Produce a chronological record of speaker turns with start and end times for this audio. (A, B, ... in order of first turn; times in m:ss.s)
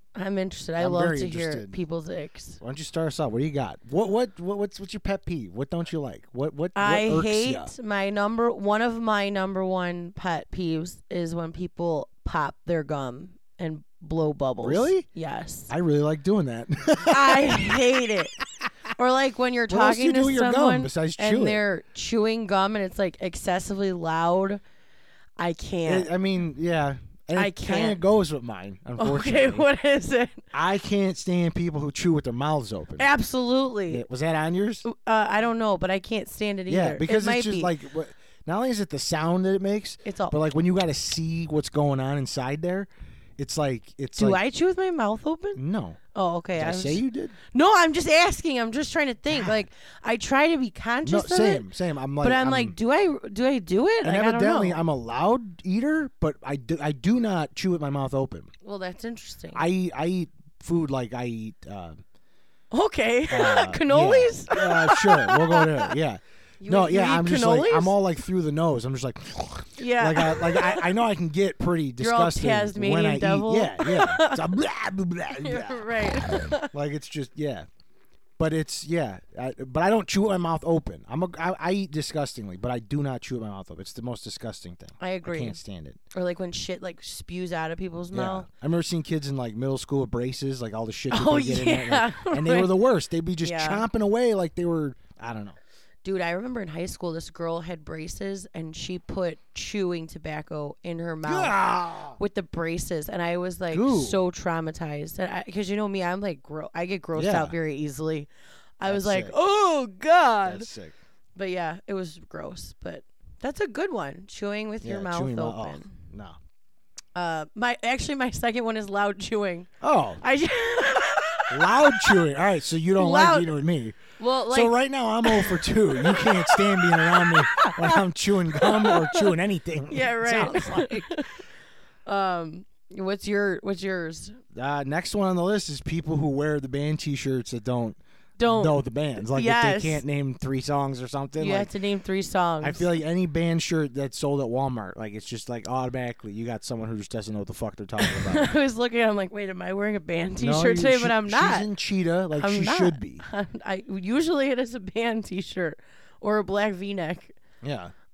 0:00.2-0:02.6 A
0:00.8-0:01.8 B
0:02.6-0:07.7 B
0:06.8-0:15.7 A
0:14.6-0:15.1 B
0:15.7-0:17.9 B
0:17.0-0:18.4 A
0:19.0-0:24.6 A
0:19.7-0:21.6 B
0:25.4-0:26.1 A
0:25.8-0:29.7 B
0:27.4-0:28.0 A
0:29.0-0:30.5 A
0:30.5-0:33.1 B
0:33.0-0:34.0 A
0:33.9-0:34.8 B
0:34.8-0:37.7 A
0:36.7-0:44.4 B
0:40.0-0:40.4 A
0:44.2-0:45.6 A
0:45.6-0:46.0 B
0:46.1-0:51.7 A
0:46.6-0:47.4 B
0:51.0-0:52.8 B
0:52.2-0:54.8 A
0:54.0-0:58.5 B
0:58.6-0:59.7 A
0:59.5-1:02.0 B
1:02.7-1:06.0 A
1:03.3-1:17.7 B
1:06.6-1:08.0 A
1:09.8-1:10.9 A
1:12.0-1:14.5 A
1:15.3-1:16.7 A
1:18.4-1:26.0 B
1:25.0-1:25.6 A
1:26.1-1:28.5 A
1:28.1-1:35.6 B
1:31.1-1:32.8 A
1:33.4-1:33.8 A
1:36.0-1:50.7 A
1:41.2-1:42.2 B
1:43.7-1:44.2 B
1:47.2-1:47.6 B
1:48.8-1:49.3 B
1:50.4-1:51.0 B
1:51.4-1:55.9 A
1:54.8-1:56.4 B
1:57.2-1:59.7 A
1:59.8-2:00.2 B
2:00.2-2:02.2 A
2:01.5-2:11.2 B
2:03.0-2:03.5 A
2:04.2-2:09.3 A
2:09.9-2:11.4 A
2:12.1-2:14.4 A
2:14.5-2:21.7 B
2:18.4-2:20.0 A
2:21.4-2:23.0 A
2:22.6-2:28.5 B
2:28.0-2:31.7 A
2:30.4-2:33.2 B
2:32.3-2:37.4 A
2:37.6-2:37.9 B